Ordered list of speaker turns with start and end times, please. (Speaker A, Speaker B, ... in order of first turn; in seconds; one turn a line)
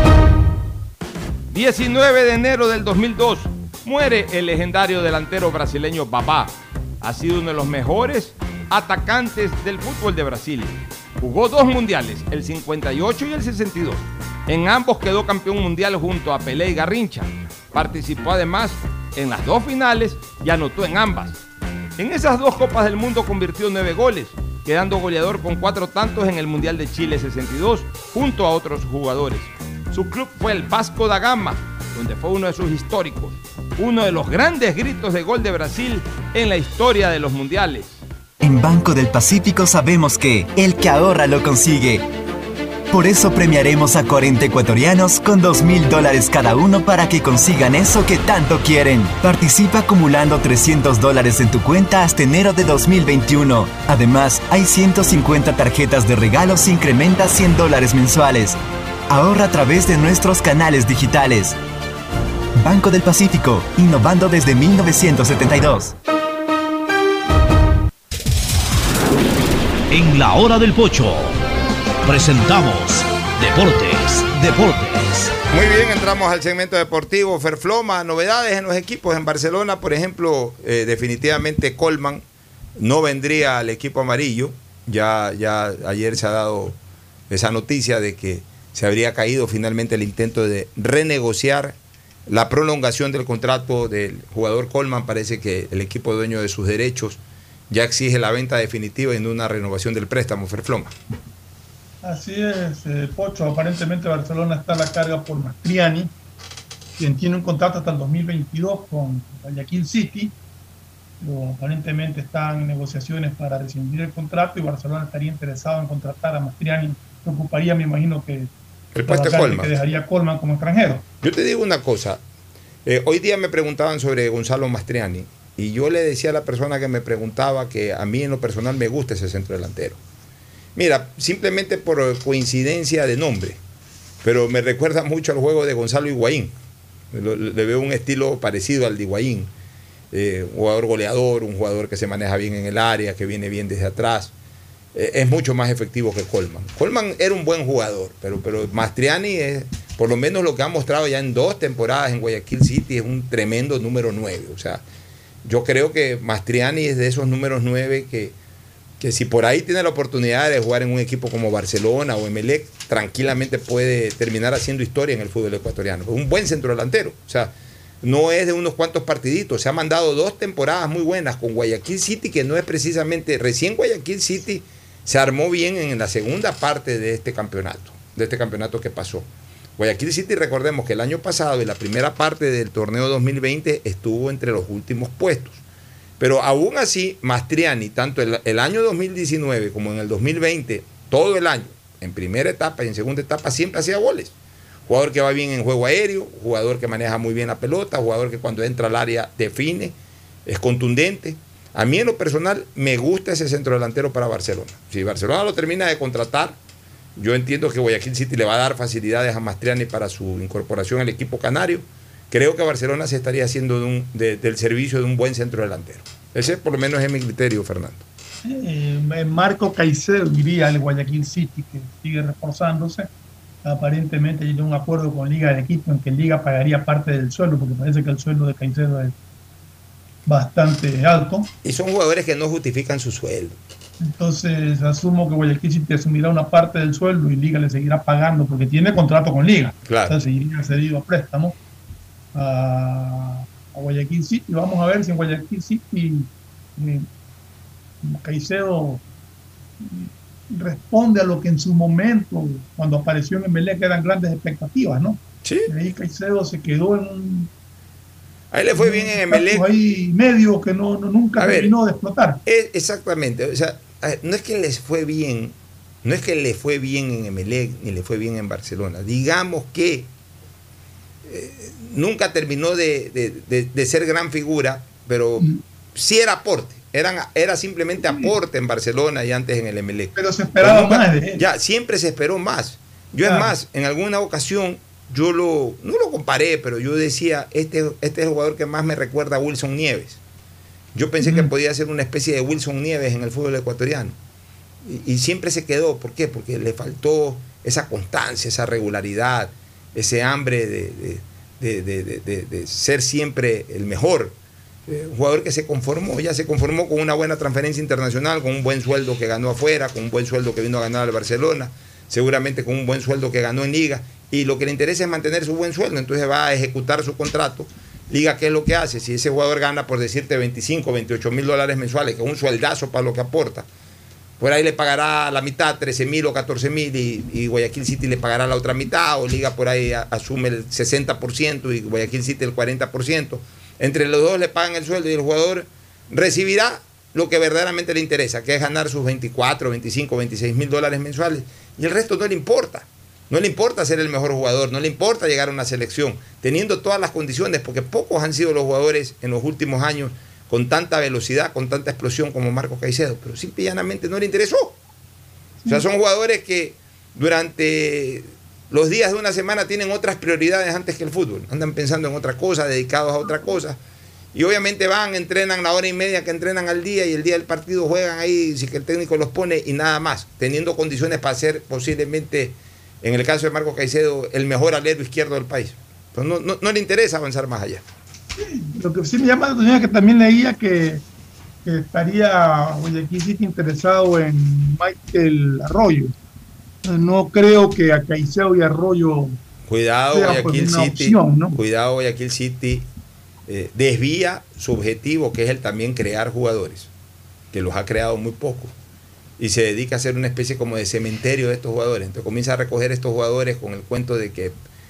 Speaker A: 1.5-6.5
Speaker A: 7.0-21.3
Speaker A: 22.0-25.2
Speaker A: 25.8-29.3
Speaker A: 29.9-38.0
Speaker B: 38.4-42.0
Speaker B: 42.9-58.6
Speaker B: 59.1-61.5
Speaker B: 62.6-65.9
Speaker C: 69.9-71.4
Speaker C: 72.0-75.3
Speaker D: 75.5-82.2
Speaker D: 82.8-86.8
Speaker D: 87.3-91.8
Speaker D: 92.3-100.9
Speaker E: 102.0-106.1
Speaker E: 107.0-110.3
Speaker E: 111.2-118.5
Speaker D: 118.9-119.8
Speaker E: 119.0-121.0
Speaker D: 121.2-122.2
Speaker D: 122.8-130.0
Speaker D: 130.7-133.6
Speaker D: 134.2-136.6
Speaker D: 137.1-139.5
Speaker D: 140.1-144.3
Speaker D: 144.9-154.8
Speaker D: 155.4-158.3
Speaker D: 159.0-179.2
Speaker D: 179.8-185.6
Speaker D: 186.2-194.3
Speaker D: 194.9-199.9
Speaker D: 200.4-206.6
Speaker D: 207.2-218.0
Speaker E: 218.4-223.1
Speaker E: 223.6-229.1
Speaker E: 230.3-231.5
Speaker D: 231.6-233.6
Speaker E: 234.0-241.5
Speaker D: 239.8-240.2
Speaker E: 242.3-247.1
Speaker E: 248.0-249.0
Speaker E: 249.8-257.5
Speaker D: 255.4-255.7
Speaker D: 258.5-259.6
Speaker E: 258.7-262.4
Speaker D: 261.4-261.7
Speaker D: 262.4-270.1
Speaker D: 271.2-290.2
Speaker E: 278.0-278.3
Speaker E: 280.1-281.4
Speaker E: 283.2-283.5
Speaker D: 290.9-294.1
Speaker E: 291.2-291.5
Speaker D: 294.8-304.4
Speaker D: 304.9-323.6
Speaker D: 324.4-354.8
Speaker D: 355.7-363.8
Speaker D: 364.3-377.9
Speaker E: 378.4-381.0
Speaker E: 381.6-386.1
Speaker E: 386.8-389.4
Speaker D: 389.7-392.9
Speaker E: 390.1-391.6
Speaker D: 393.5-396.9
Speaker D: 397.5-398.7
Speaker D: 399.4-404.5